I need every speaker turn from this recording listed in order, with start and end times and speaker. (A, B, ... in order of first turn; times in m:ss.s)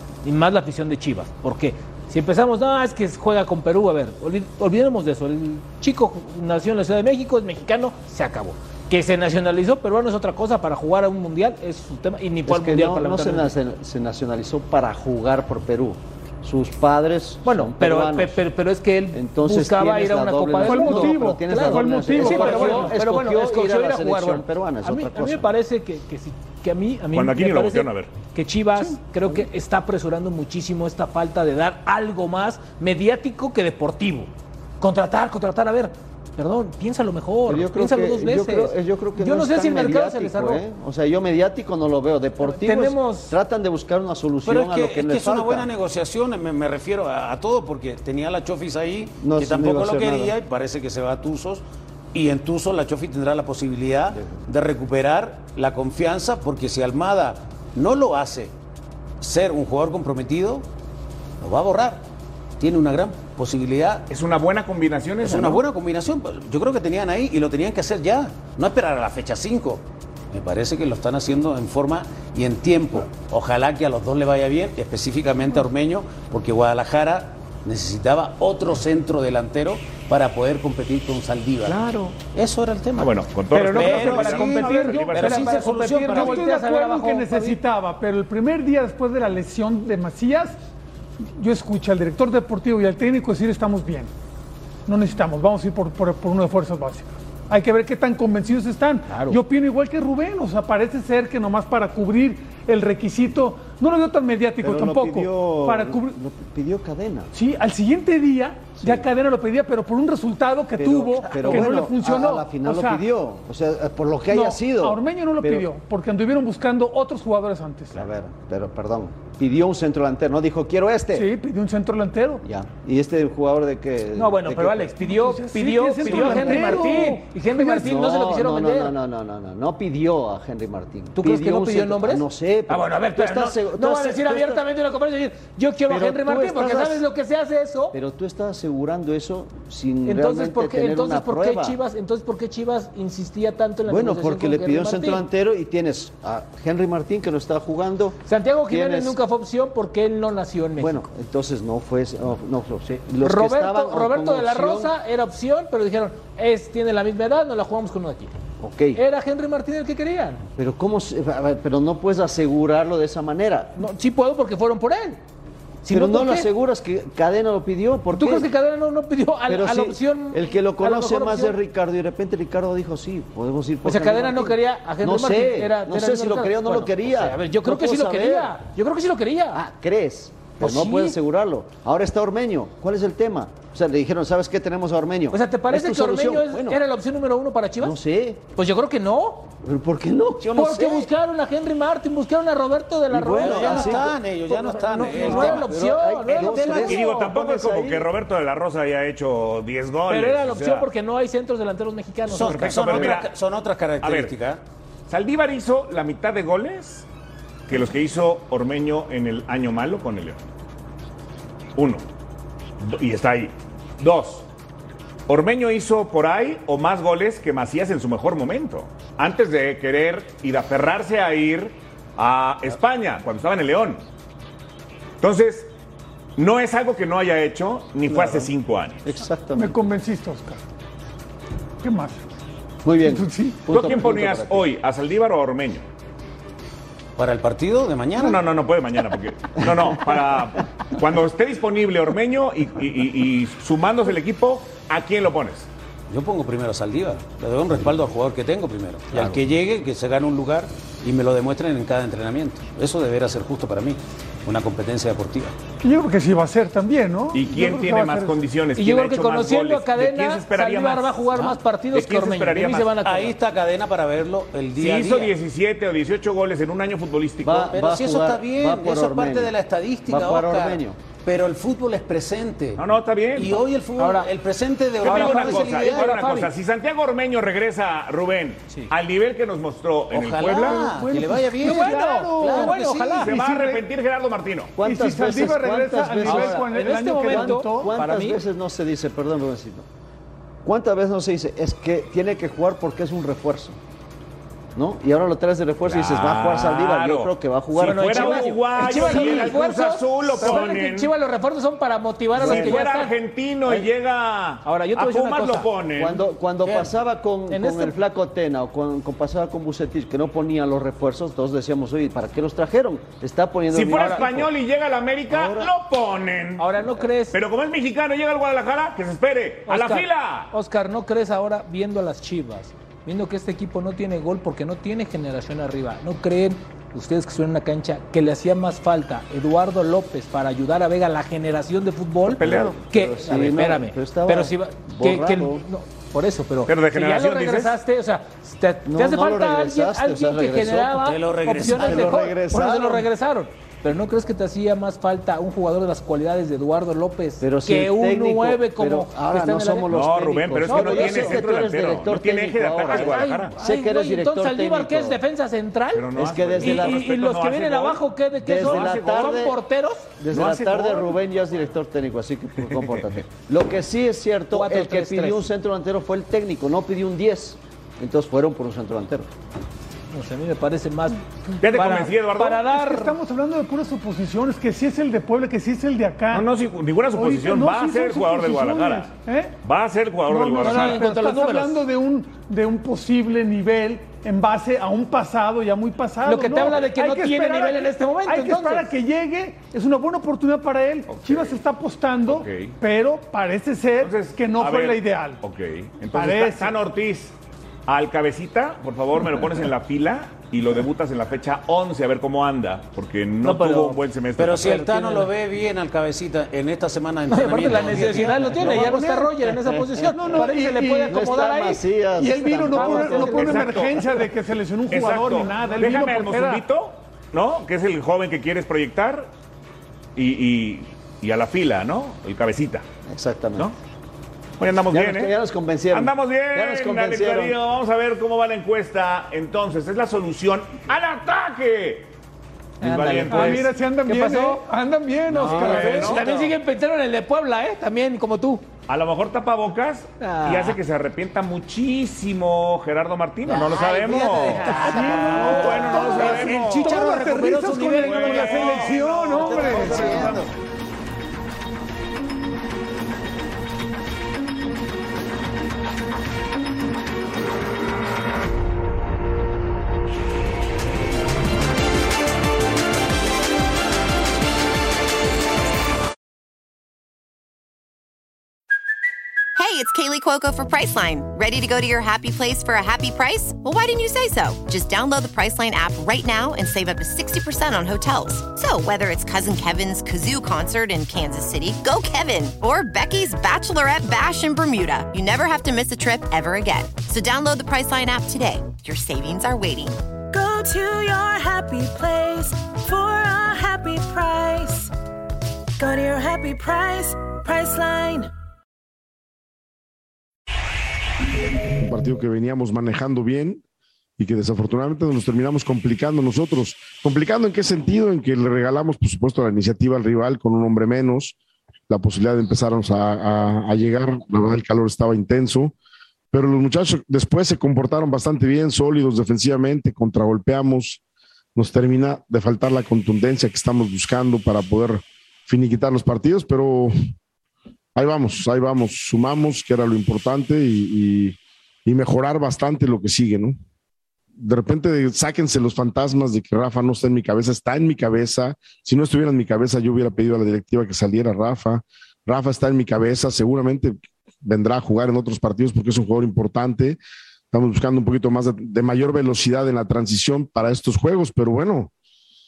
0:00.2-0:13.5 A
0:12.5-0:18.4 B
0:17.4-0:40.6 A
0:19.1-0:25.5 B
0:20.6-0:23.0 C
0:27.1-0:28.1 D
0:37.5-0:45.7 B
0:42.4-0:43.4 A
0:44.4-0:58.5 E
0:49.2-0:50.4 B
0:59.2-1:00.7 E
1:01.4-1:02.0 E
1:02.6-1:04.1 E
1:04.1-1:05.6 D
1:05.2-1:26.5 E
1:21.6-1:22.2 D
1:23.0-1:25.7 D
1:23.5-1:27.6 A
1:26.0-1:30.6 C
1:31.4-1:34.1 C
1:34.9-1:46.1 C
1:39.1-1:39.4 A
1:44.6-1:47.3 B
1:47.3-1:53.0 C
1:48.8-1:49.1 B
1:50.8-1:55.7 B
1:54.3-1:58.0 C
1:57.9-2:01.3 B
2:01.1-2:02.4 C
2:02.4-2:05.0 B
2:04.2-2:09.0 A
2:05.0-2:07.8 C
2:06.0-2:07.0 B
2:07.6-2:14.7 B
2:11.2-2:18.0 A
2:15.9-2:17.0 B
2:17.9-2:21.8 B
2:20.0-2:25.2 A
2:23.9-2:29.2 B
2:28.3-2:31.0 A
2:30.8-2:34.9 B
2:33.2-2:38.3 A
2:38.6-2:39.0 B
2:39.0-2:40.4 A
2:40.6-2:43.8 B
2:43.8-2:45.2 A
2:45.8-2:46.5 A
2:45.9-2:48.5 B
2:48.1-2:51.6 A
2:49.5-2:58.6 B
2:53.8-2:59.6 A
2:59.5-3:06.8 B
3:00.6-3:01.2 A
3:05.3-3:08.0 A
3:07.8-3:08.4 B
3:08.6-3:09.5 A
3:09.6-3:11.1 B
3:10.6-3:17.1 A
3:13.1-3:14.2 B
3:13.3-3:15.7 E
3:15.0-3:18.1 B
3:16.7-3:20.9 D
3:20.1-3:23.1 A
3:22.3-3:24.6 E
3:22.5-3:23.3 D
3:24.0-3:24.3 D
3:25.1-3:27.1 D
3:27.7-3:30.4 D
3:31.8-3:32.0 D
3:32.8-3:34.5 D
3:35.3-3:44.0 D
3:45.2-3:45.7 D
3:46.4-3:49.0 D
3:48.1-3:48.5 B
3:49.0-3:49.8 B
3:49.6-3:50.6 C
3:51.8-3:52.2 C
3:52.8-3:54.7 B
3:53.0-3:53.6 C
3:53.7-3:55.9 D
3:57.2-3:58.4 E
3:58.2-4:05.7 D
4:06.1-4:15.6 E
4:15.8-4:18.4 C
4:17.3-4:21.3 D
4:18.8-4:23.4 A
4:21.3-4:21.6 E
4:21.9-4:22.9 D
4:23.0-4:25.3 E
4:24.8-4:27.7 D
4:27.4-4:29.6 B
4:27.7-4:32.8 E
4:30.1-4:31.0 B
4:32.8-4:33.6 D
4:33.4-4:36.2 E
4:34.0-4:34.3 A
4:35.0-4:41.0 D
4:35.0-4:36.5 A
4:40.1-4:43.3 E
4:40.6-4:43.8 C
4:41.6-4:43.4 A
4:43.2-4:44.7 D
4:44.8-4:49.9 B
4:44.8-4:48.0 C
4:46.2-4:48.4 A
4:50.6-4:53.8 B
4:54.7-4:58.6 B
4:55.8-5:01.1 D
4:57.8-5:03.1 A
5:02.4-5:06.2 D
5:02.4-5:02.8 B
5:04.6-5:05.7 A
5:06.0-5:14.5 B
5:06.6-5:06.9 E
5:07.5-5:08.0 A
5:13.7-5:16.7 D
5:13.9-5:14.3 A
5:15.3-5:15.7 B
5:16.6-5:17.4 A
5:17.3-5:20.5 D
5:19.7-5:50.0 A
5:32.4-5:32.8 D
5:32.4-5:35.6 B
5:36.7-5:37.8 D
5:38.8-5:43.1 B
5:41.0-5:42.3 E
5:47.4-5:55.2 B
5:49.9-5:53.5 D
5:50.6-5:51.7 A
5:52.9-5:56.1 A
5:55.9-5:58.0 D
5:56.2-5:57.0 B
5:56.6-6:00.1 A
5:58.4-5:59.6 B
5:58.6-5:59.1 D
6:00.2-6:09.3 B
6:00.3-6:00.7 D
6:04.5-6:05.5 A
6:10.1-6:13.2 A
6:11.6-6:12.6 D
6:12.5-6:16.5 C
6:16.3-6:19.1 D
6:17.1-6:19.6 C
6:19.6-6:21.0 D
6:20.3-6:35.4 C
6:20.6-6:21.8 A
6:26.2-6:28.9 A
6:31.1-6:31.6 D
6:32.3-6:32.8 D
6:34.0-6:37.4 D
6:36.1-6:36.8 C
6:37.9-6:44.8 D
6:43.4-6:44.0 A
6:44.4-6:49.1 E
6:44.6-6:45.3 A
6:47.3-6:51.8 A
6:48.6-6:49.4 C
6:50.0-6:51.3 C
6:51.1-6:53.6 B
6:52.2-6:56.6 C
6:52.6-6:53.7 A
6:53.3-6:54.0 D
6:54.9-6:59.3 D
7:00.2-7:02.9 D
7:03.1-7:03.7 B
7:04.6-7:05.4 D
7:04.9-7:07.6 B
7:05.9-7:12.1 D
7:12.8-7:13.7 D
7:12.8-7:14.6 A
7:13.3-7:16.2 C
7:15.3-7:18.6 A
7:15.4-7:16.2 D
7:18.9-7:27.1 D
7:20.2-7:20.8 A
7:23.5-7:27.3 E
7:24.0-7:28.9 A
7:24.6-7:30.4 C
7:28.0-7:29.0 D
7:28.4-7:30.5 E
7:49.6-8:10.0 F
8:10.3-8:14.9 G
8:15.8-8:18.3 G
8:21.8-8:23.6 H
8:24.2-8:31.4 H
8:31.9-8:35.8 H
8:36.3-8:41.0 H
8:41.6-8:47.0 H
8:48.0-8:53.6 H
8:54.4-9:07.0 H
9:07.5-9:11.9 H